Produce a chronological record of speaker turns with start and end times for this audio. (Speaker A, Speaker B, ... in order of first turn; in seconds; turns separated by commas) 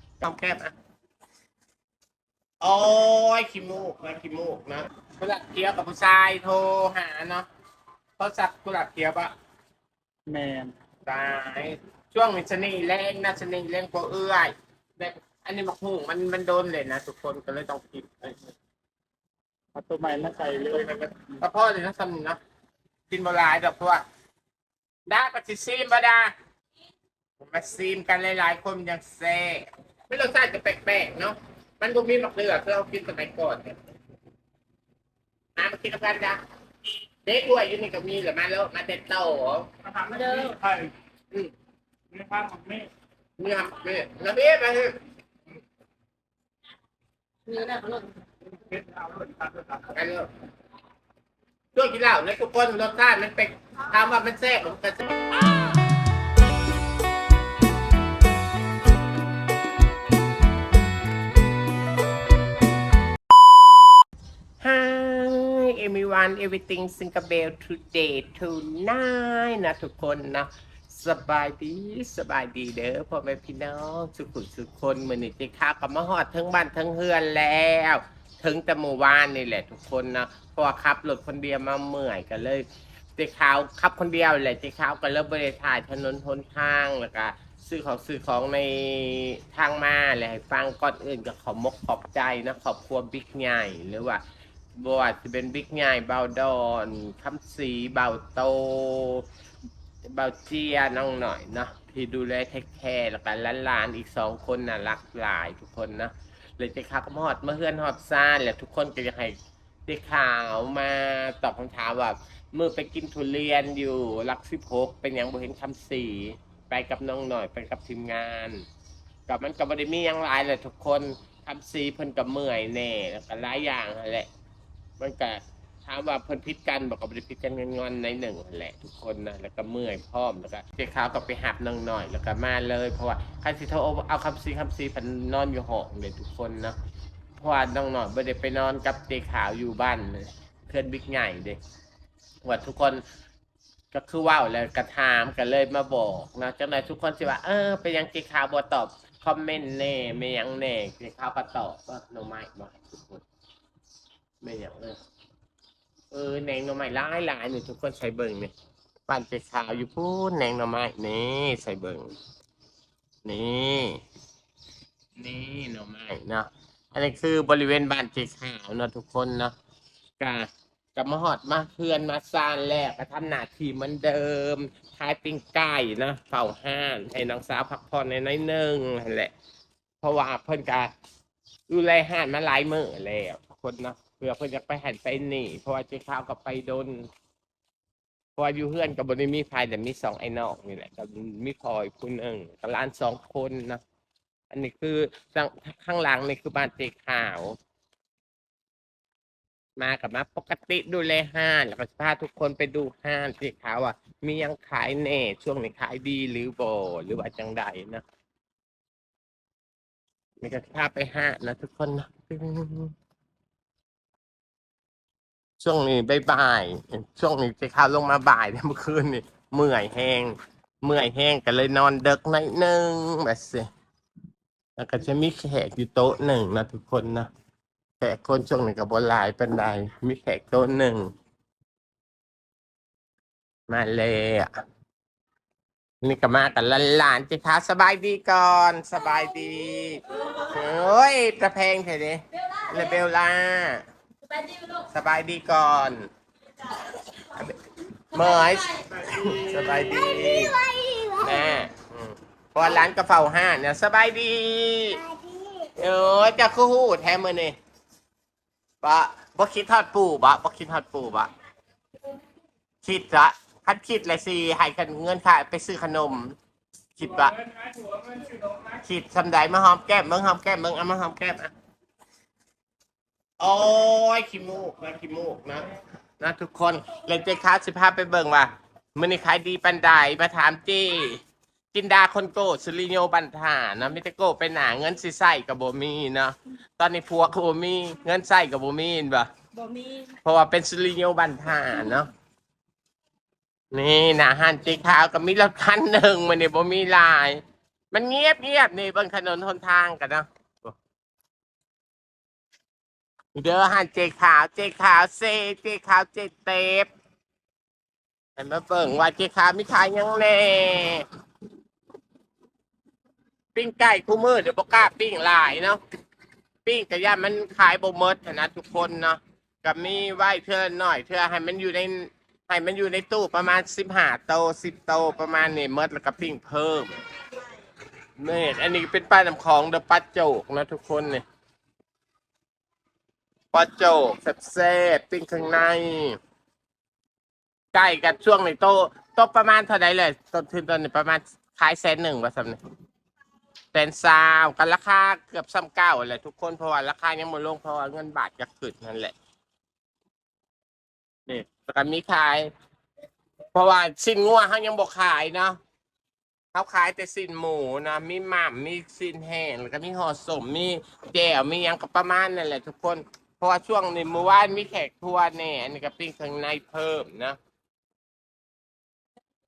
Speaker A: 0.2-0.7, Speaker A: 2.6-7.5, Speaker A: 8.2-9.3, Speaker B: 10.3-10.7, Speaker A: 11.1-18.5, Speaker B: 19.7-21.3, Speaker A: 21.4-22.4, Speaker A: 23.1-24.0, Speaker A: 25.1-26.3, Speaker A: 27.4-33.8, Speaker A: 35.5-36.4, Speaker A: 37.2-39.7, Speaker B: 39.8-40.9, Speaker C: 40.1-40.6, Speaker B: 42.1-42.9, Speaker A: 43.4-45.0, Speaker C: 47.5-48.2, Speaker B: 48.6-49.9, Speaker A: 49.9-50.3, Speaker A: 51.7-55.4, Speaker A: 64.6-94.2, Speaker A: 94.8-99.2, Speaker A: 100.0-118.7, Speaker A: 119.3-124.3, Speaker A: 125.0-136.8, Speaker A: 137.4-141.6, Speaker A: 142.4-143.0, Speaker A: 143.9-153.2, Speaker A: 154.4-155.0, Speaker A: 156.1-158.5, Speaker A: 159.1-162.1, Speaker A: 163.2-164.0, Speaker A: 165.2-169.5, Speaker A: 170.2-179.3, Speaker A: 180.0-180.9, Speaker A: 181.7-187.1, Speaker A: 188.4-193.8, Speaker A: 194.5-197.6, Speaker A: 199.8-208.0, Speaker A: 210.4-212.9, Speaker A: 215.6-223.7, Speaker A: 224.8-227.3, Speaker A: 228.0-231.1, Speaker A: 233.7-234.5, Speaker A: 236.0-243.8, Speaker C: 242.4-242.9, Speaker C: 244.2-244.8, Speaker A: 244.9-246.1, Speaker A: 247.2-247.6, Speaker A: 248.1-250.6, Speaker C: 248.2-248.8, Speaker B: 249.0-250.1, Speaker C: 250.1-251.1, Speaker A: 251.2-255.0, Speaker A: 255.7-257.6, Speaker A: 258.8-261.3, Speaker A: 262.8-266.4, Speaker A: 266.9-267.4, Speaker B: 267.0-268.8, Speaker A: 268.8-271.5, Speaker A: 273.4-275.7, Speaker A: 276.2-281.2, Speaker A: 281.7-289.3, Speaker C: 289.5-290.1, Speaker A: 290.2-292.1, Speaker A: 293.7-300.7, Speaker A: 303.3-306.9, Speaker A: 308.4-311.0, Speaker A: 313.5-315.8, Speaker A: 316.6-327.0, Speaker A: 328.2-331.2, Speaker A: 333.5-336.2, Speaker A: 337.7-342.6, Speaker A: 343.7-349.1, Speaker A: 351.3-352.5, Speaker A: 353.5-355.6, Speaker A: 356.5-367.4